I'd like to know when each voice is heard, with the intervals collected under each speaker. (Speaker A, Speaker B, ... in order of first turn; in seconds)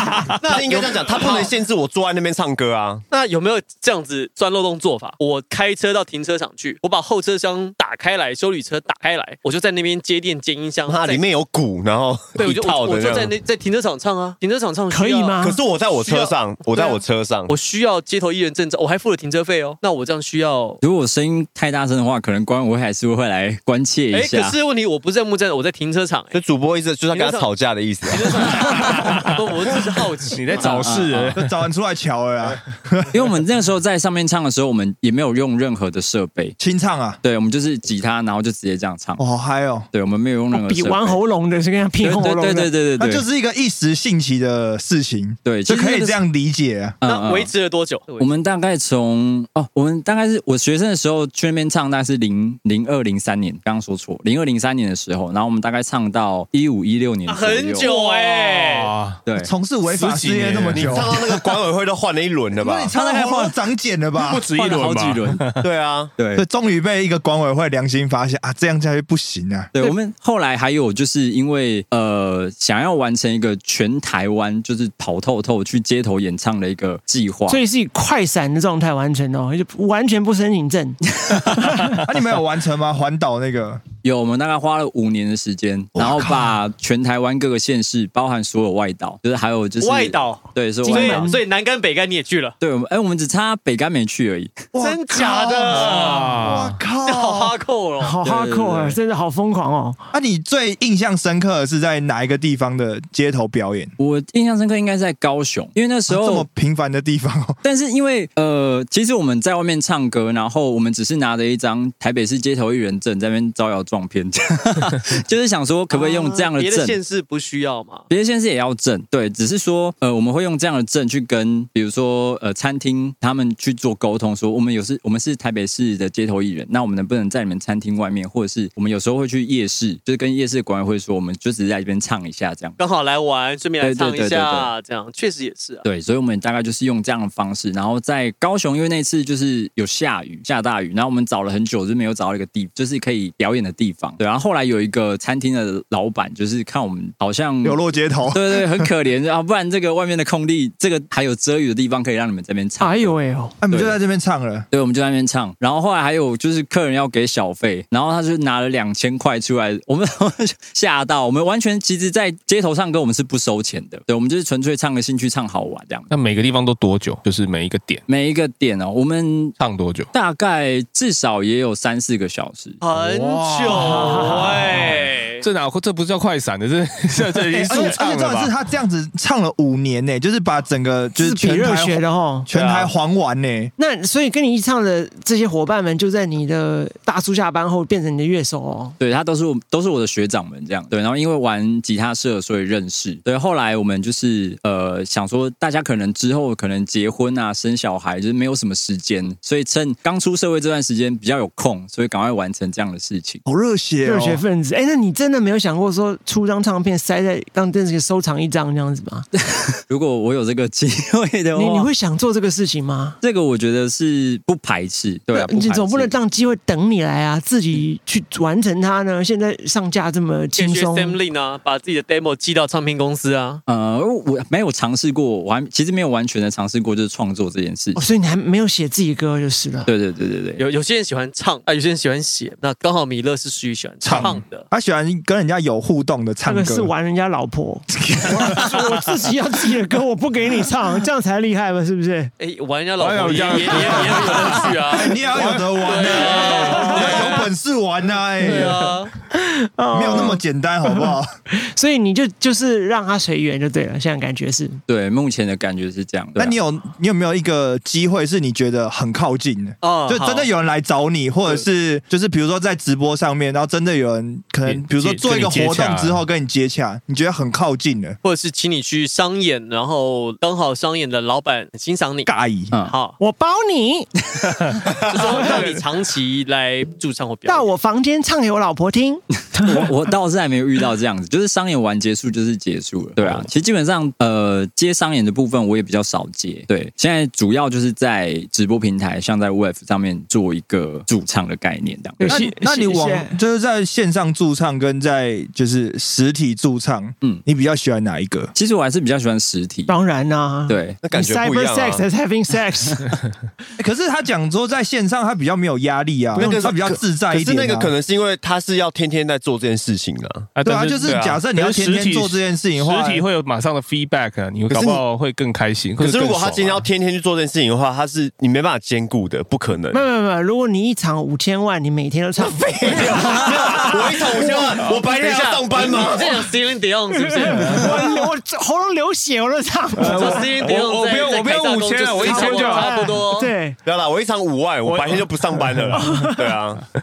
Speaker A: 0.4-1.5, 3.1-11.2, 12.3-15.4, 16.0-20.8, 24.1-26.4, 27.1-27.5, 28.1-30.9, 47.0-48.3, 57.3-58.9, 89.8-92.5, 94.8-96.3, 97.0-98.2, 115.9-118.0, 132.8-135.8, 172.8-175.4, 220.6-223.6, 230.6-234.7, 242.4-245.2, 245.8-247.5, 248.4-249.1, 259.8-260.5, 268.2-272.3, 272.9-273.1, 275.1-277.7, 324.9-327.9, 330.1-333.5
Speaker B: 0.4-3.0, 10.9-13.3, 15.4-17.5, 26.3-28.3, 60.7-62.9, 65.6-66.1, 182.5-182.9, 301.0-302.1, 306.4-310.5, 311.0-311.4, 314.7-315.0, 316.0-320.0, 322.4-326.5, 333.8-336.8
Speaker C: 14.9-15.6, 40.5-42.7, 77.5-82.0, 90.8-91.4, 98.0-100.0, 152.8-153.6, 173.8-174.6, 181.1-182.5, 183.8-188.9, 204.0-209.3, 211.5-213.2, 215.3-221.2, 227.9-229.9, 236.4-242.3, 249.3-254.8, 273.2-274.1, 275.1-275.6, 277.4-279.9, 292.2-293.3, 299.9-303.1, 306.4-307.0, 319.9-324.4, 327.1-330.7, 332.2-333.8, 336.0-336.6
Speaker D: 20.8-24.6, 30.6-31.4, 33.1-36.6, 37.2-39.2, 39.9-41.2, 42.0-43.2, 45.4-46.2, 47.0-47.5, 48.2-57.9, 62.9-63.6, 64.5-65.4, 66.2-66.4, 69.7-77.6, 84.0-91.3, 92.6-94.5, 104.0-106.5, 107.6-117.0, 118.1-132.8, 133.8-134.7, 135.8-153.2, 153.7-154.0, 154.7-166.1, 168.1-169.6, 170.1-172.8, 189.0-203.4, 209.8-211.9, 213.2-216.1, 223.7-228.0, 229.8-230.6, 254.9-256.6, 279.6-292.3, 298.6-299.9, 300.7-301.0
Speaker E: 28.6-29.3, 30.3-31.5, 58.5-59.2, 59.9-61.1, 64.2-65.7, 95.7-96.8, 166.1-168.0, 169.6-170.1, 173.3-178.5, 234.1-234.3, 243.0-247.2, 264.6-266.2, 310.6-316.8, 330.0-332.9, 334.8-336.0
Speaker F: 31.4-33.1, 36.6-37.2, 39.2-39.9, 43.0-47.0, 59.4-61.2, 62.6-64.5, 66.3-69.7, 82.0-83.8, 86.0-86.4, 94.7-97.6, 100.1-103.9, 106.1-107.6, 147.6-148.9, 153.6-154.7, 173.1-174.0, 177.5-183.7, 203.4-204.4, 234.1-236.9, 238.1-238.6, 244.9-248.9, 249.9-251.3, 256.4-268.2, 272.2-272.8, 292.2-298.5, 303.8-307.9, 310.6-313.2